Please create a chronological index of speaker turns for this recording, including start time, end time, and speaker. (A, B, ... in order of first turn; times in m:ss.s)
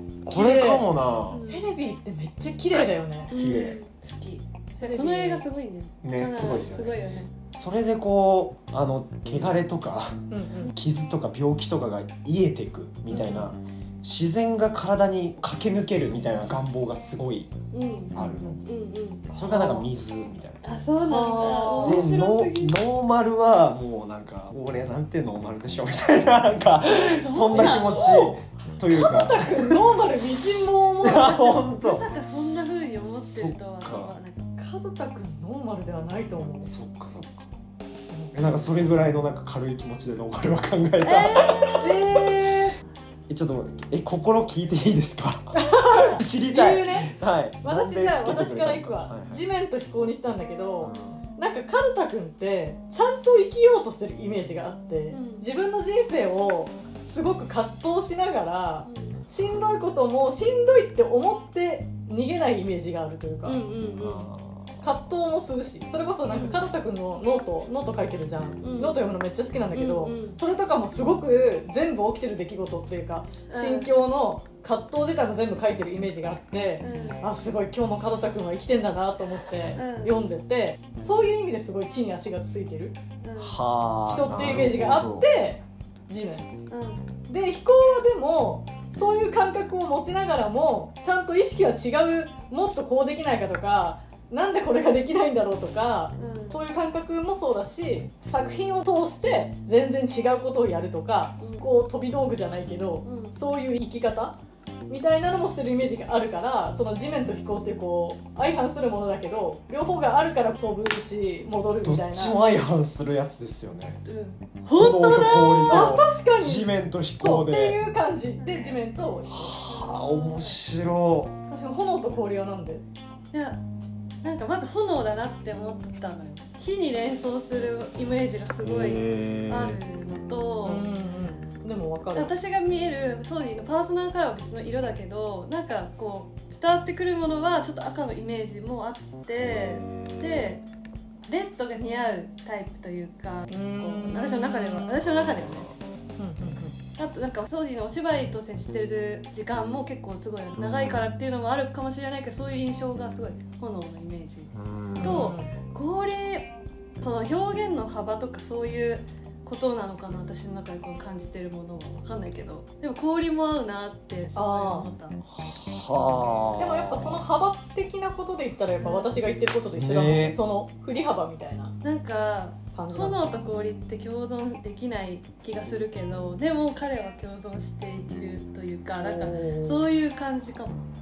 0:00.2-0:00.9 A
0:00.3-0:01.4 B
0:01.3-0:01.8 C
0:01.4-0:03.3 A
0:03.3-0:03.8 B
0:03.3-0:07.3 C
0:04.8-0:05.4 A
0:06.0-0:07.0 B
0:07.5-0:17.5 B
0:10.3-0:10.7 A
0:13.1-0:13.4 A
0:17.7-0:19.9 C
0:18.2-0:18.6 B
0:18.2-0:18.6 A
0:19.3-0:20.6 B
0:19.5-0:19.7 A
0:20.6-0:22.8 C
0:21.0-0:22.1 A
0:21.8-0:30.0 B
0:26.8-0:28.3 C
0:27.5-0:31.6 A
0:31.0-0:32.1 B
0:31.1-0:34.5 C
0:33.0-0:34.1 B
0:34.6-0:36.7 A
0:36.6-0:37.5 B
0:38.3-0:42.2 B
0:41.0-0:42.8 C
0:41.8-0:42.7 A
0:43.3-0:49.4 B
0:45.6-1:03.6 A
0:50.8-0:51.2 B
0:55.1-0:55.5 C
0:58.9-0:59.2 C
1:03.4-1:04.3 C
1:04.0-1:04.9 B
1:04.8-1:23.0 A
1:06.3-1:06.7 C
1:08.6-1:09.2 C
1:09.7-1:10.4 C
1:13.5-1:14.0 C
1:16.8-1:17.2 C
1:19.8-1:20.2 C
1:23.2-1:23.6 C
1:23.4-1:25.3 B
1:24.1-1:26.5 A
1:26.7-1:27.1 C
1:27.3-1:44.4 A
1:36.2-1:36.6 C
1:41.4-1:41.7 C
1:43.0-1:43.4 C
1:44.9-1:52.4 A
1:51.8-1:54.0 B
1:54.1-1:56.0 C
1:54.7-1:57.8 B
1:55.7-1:59.6 A
1:58.4-1:58.8 C
1:59.3-2:01.3 B
1:59.6-2:00.6 C
2:01.5-2:02.8 A
2:03.3-2:03.6 C
2:04.2-2:10.9 C
2:08.6-2:09.8 B
2:10.6-2:12.3 A
2:12.1-2:20.6 C
2:19.4-2:20.6 B
2:21.3-2:25.7 C
2:23.5-2:24.9 A
2:24.9-2:25.8 B
2:26.2-2:26.8 A
2:27.0-2:45.2 C
2:30.6-2:31.1 B
2:34.5-2:35.4 B
2:35.0-2:35.5 A
2:44.4-2:44.9 A
2:45.3-2:47.2 B
2:46.6-2:51.7 A
2:48.8-2:49.1 C
2:49.8-2:50.4 B
2:51.8-3:00.9 C
2:52.7-2:53.2 A
2:59.0-2:59.9 A